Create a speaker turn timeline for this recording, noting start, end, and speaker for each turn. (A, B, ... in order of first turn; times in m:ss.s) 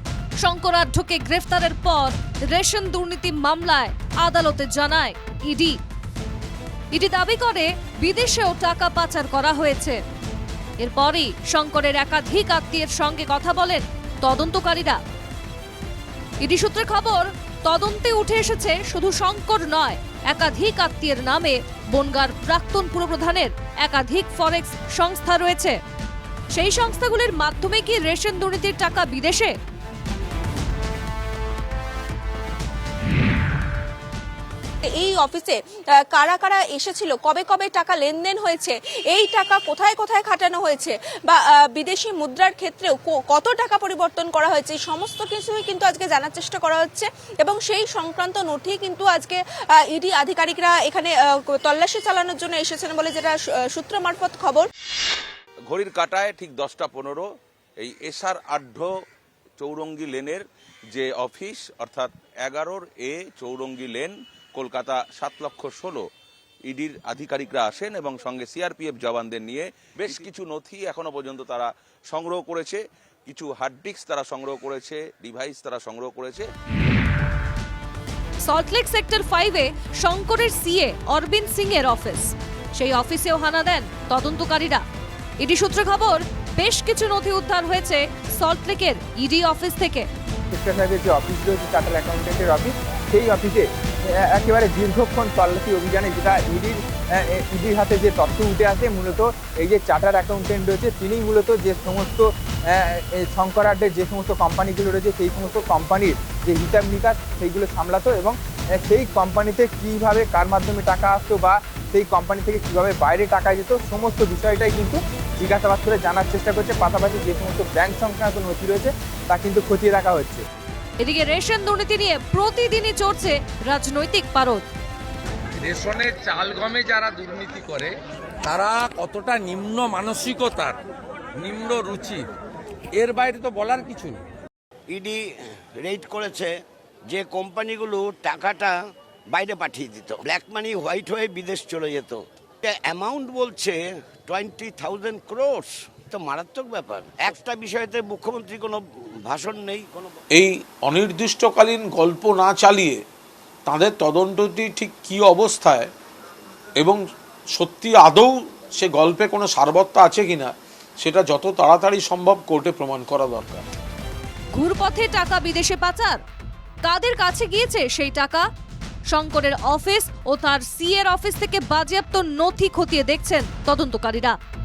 0:00.4-0:05.8 A
0:06.9-0:10.0 A
0:10.8-0:15.0 A
0:16.4-0:25.8 A
0:26.5-0:29.5 A
0:34.8-0:54.7 B
0:55.7-0:57.2 C
0:57.8-0:58.9 C
0:59.6-1:06.0 C
1:06.7-1:16.5 C
1:18.4-1:24.8 A
1:25.4-1:30.1 A
1:30.5-2:00.4 D
2:01.0-2:04.6 A
2:05.6-2:10.8 E
2:11.3-2:12.3 E
2:12.9-2:14.2 E
2:14.9-2:15.2 F
2:15.8-2:16.5 F
2:17.1-2:18.8 F
2:19.3-2:30.1 F
2:30.3-2:33.0 G
2:33.7-2:35.9 G
2:37.6-2:43.6 G
2:44.5-2:46.2 A
2:46.8-2:48.4 A
2:49.1-2:54.4 A